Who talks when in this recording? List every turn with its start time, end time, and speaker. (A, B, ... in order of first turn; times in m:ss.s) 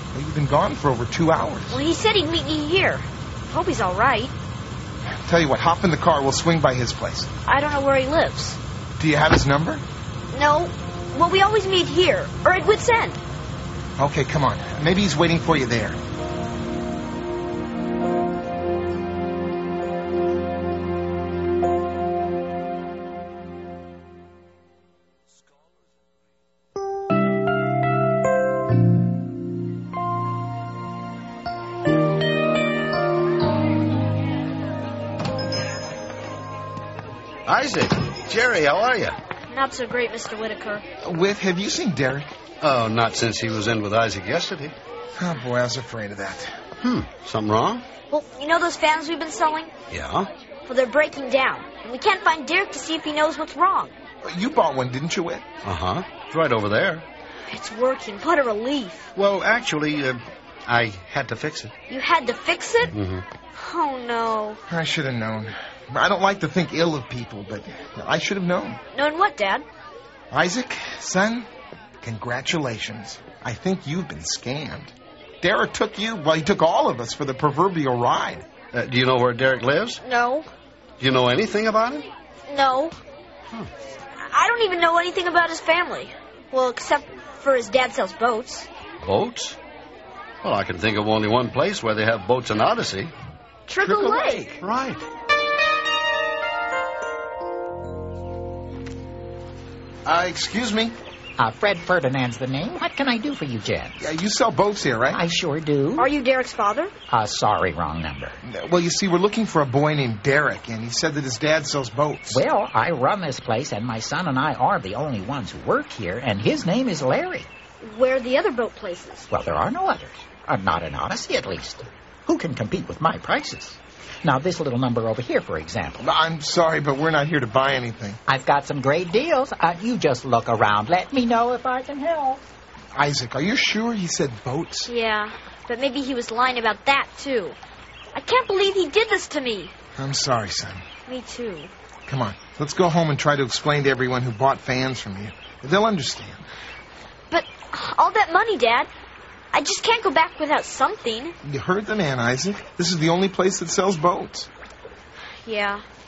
0:00.1-0:01.8 A
0:01.7-0:04.3 B
0:05.2-0:07.3 A
0:07.4-0:08.6 B
0:09.0-0:09.8 A
0:10.3-0:13.2 B
0:14.0-0:16.0 A
0:37.5-0:39.1 C
0:39.5-0:40.8 B
0:41.0-0:42.3 A
0:42.6-0:44.7 C
0:45.2-0:46.6 A
0:46.8-0:47.8 C
0:48.1-0:49.7 B
0:49.9-0:50.3 C
0:50.7-0:53.9 B
0:54.2-0:55.4 A
0:55.6-0:57.0 C
0:57.5-0:59.1 B
0:59.1-1:01.7 C
1:01.9-1:02.9 B
1:02.9-1:03.2 C
1:03.5-1:04.6 B
1:04.7-1:08.8 A
1:08.9-1:09.6 B
1:10.3-1:11.5 A
1:12.0-1:18.4 A
1:18.7-1:20.0 C
1:20.0-1:20.5 B
1:21.0-1:22.1 C
1:22.5-1:23.0 B
1:24.2-1:28.7 B
1:29.0-1:29.6 C
1:30.4-1:33.1 C
1:33.7-1:34.5 B
1:33.8-1:34.6 A
1:34.6-1:35.0 C
1:40.0-1:40.9 A
1:41.4-1:43.9 D
1:44.0-1:45.2 A
1:45.1-1:46.1 D
1:46.0-1:46.9 B
1:47.1-1:48.4 D
1:48.4-1:52.4 A
1:52.3-1:57.5 D
1:57.8-1:59.3 B
1:59.3-2:06.0 D
2:06.0-2:08.2 A
2:08.3-2:12.4 D
2:12.9-2:14.9 A
2:14.8-2:17.6 B
2:18.1-2:19.7 B
2:20.0-2:20.8 A
2:21.0-2:21.7 B
2:22.1-2:26.4 A
2:27.3-2:28.9 B
2:29.5-2:31.4 B
2:31.4-2:34.5 A
2:35.4-2:35.8 B